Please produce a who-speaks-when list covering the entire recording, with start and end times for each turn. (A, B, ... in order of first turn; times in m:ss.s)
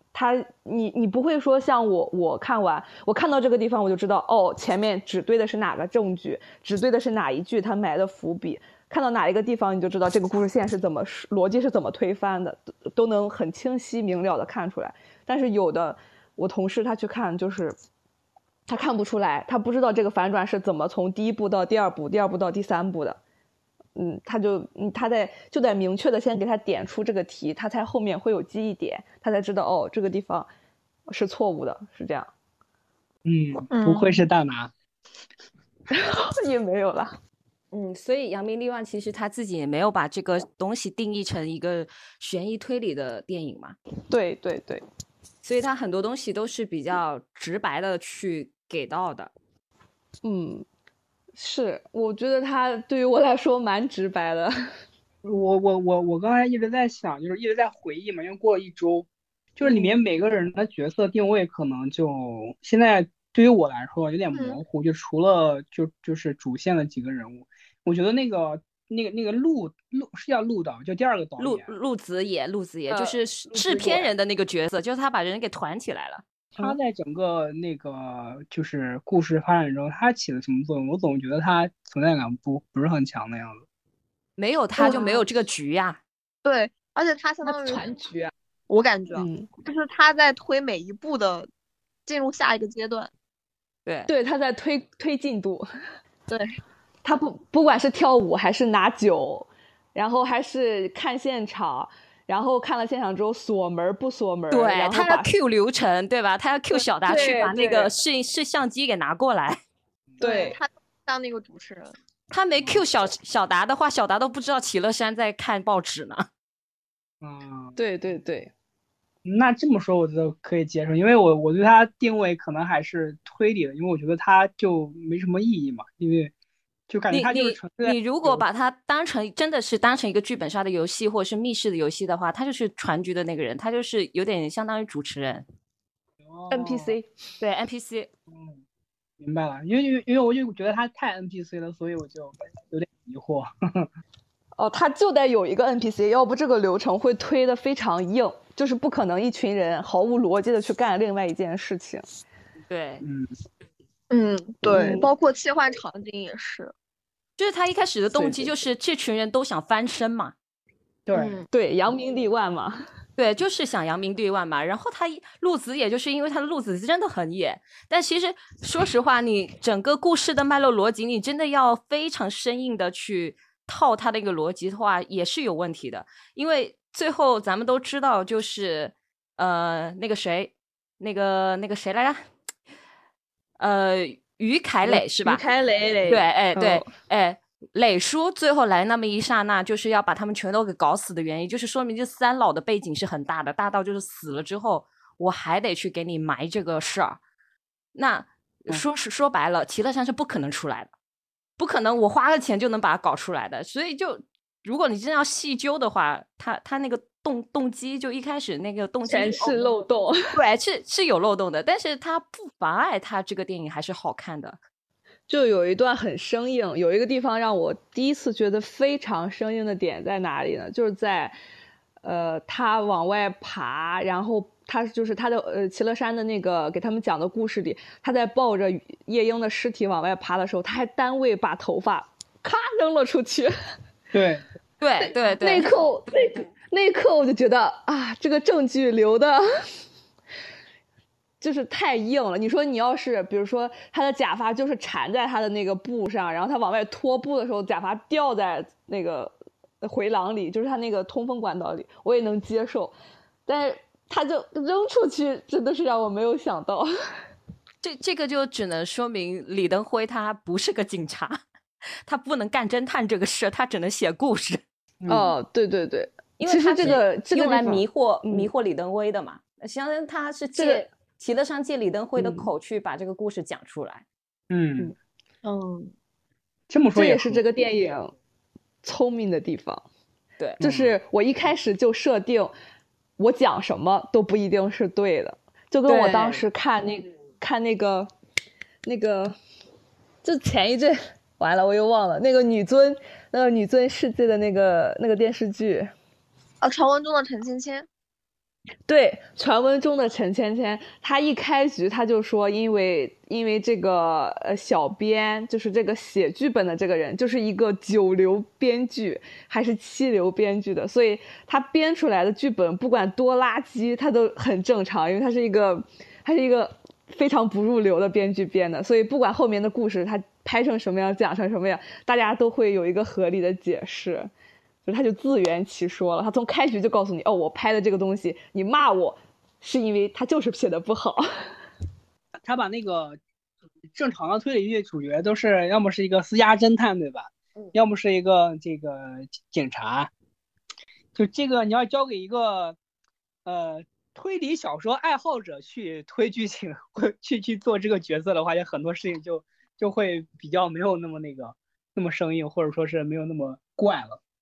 0:00.1-0:17.8 A
0:18.7-0:23.2 A
0:24.0-0:30.5 A
0:31.1-0:32.3 A
0:33.2-0:34.7 B
0:33.7-0:34.2 C
0:35.9-0:37.2 A
0:37.7-0:43.8 D
0:44.1-0:44.8 A
0:45.4-0:49.3 D
0:50.2-0:50.6 A
0:51.4-0:54.5 A
0:55.2-1:11.7 B
0:59.7-0:59.9 A
1:04.3-1:04.6 C
1:11.4-1:16.2 D
1:12.9-1:14.1 A
1:16.6-1:23.6 B
1:24.4-1:26.0 D
1:24.8-1:25.2 A
1:26.4-1:27.9 C
1:27.4-1:28.3 A
1:28.7-1:31.5 C
1:29.2-1:29.5 A
1:32.1-1:33.1 C
1:34.1-1:35.7 A
1:37.0-1:45.4 A
1:44.5-1:49.6 D
1:47.0-1:47.9 A
1:50.1-1:50.6 B
1:50.2-1:50.6 A
1:50.2-1:52.0 C
1:52.3-1:56.3 D
1:57.2-1:57.8 B
1:57.8-1:58.5 A
1:59.2-2:06.3 B
2:06.9-2:08.4 B
2:07.1-2:15.5 D
2:16.2-2:17.0 B
2:16.5-2:17.1 A
2:17.4-2:18.1 D
2:18.3-2:18.6 B
2:19.2-2:23.9 B
2:24.6-2:32.0 A
2:32.7-2:33.0 D
2:33.0-2:33.3 B
2:34.1-2:36.7 C
2:34.6-2:35.1 A
2:37.4-2:40.4 D
2:41.1-2:41.4 B
2:41.1-2:41.5 C
2:41.5-2:42.8 A
2:43.2-3:02.2 D
3:03.6-3:05.4 D
3:04.8-3:06.9 A
3:06.1-3:17.2 D
3:18.0-3:20.9 D
3:21.6-3:29.7 D
3:29.0-3:30.3 A
3:30.3-3:34.6 D
3:35.3-3:41.4 A
3:42.0-3:53.5 A
3:54.1-3:54.4 B
3:54.8-3:55.7 D
3:55.4-3:59.4 A
4:01.4-4:12.9 A
4:13.5-4:16.9 A
4:17.8-4:21.4 D
4:22.1-4:24.6 D
4:25.0-4:25.3 B
4:25.1-4:28.5 A
4:26.4-4:34.0 D
4:30.6-4:30.9 A
4:34.5-4:34.9 B
4:35.4-4:35.9 C
4:36.7-4:37.4 B
4:36.9-4:38.1 A
4:38.8-4:39.8 A
4:40.6-4:41.0 B
4:40.6-4:42.5 A
4:43.2-4:48.1 A
4:45.9-4:46.4 D
4:48.8-4:49.4 A
4:50.2-4:55.9 A
4:56.6-4:57.9 C
4:58.9-5:24.3 A
5:24.8-5:31.2 A
5:32.5-5:33.2 B
5:33.9-5:40.1 B
5:41.2-5:42.8 B
5:43.4-5:54.2 B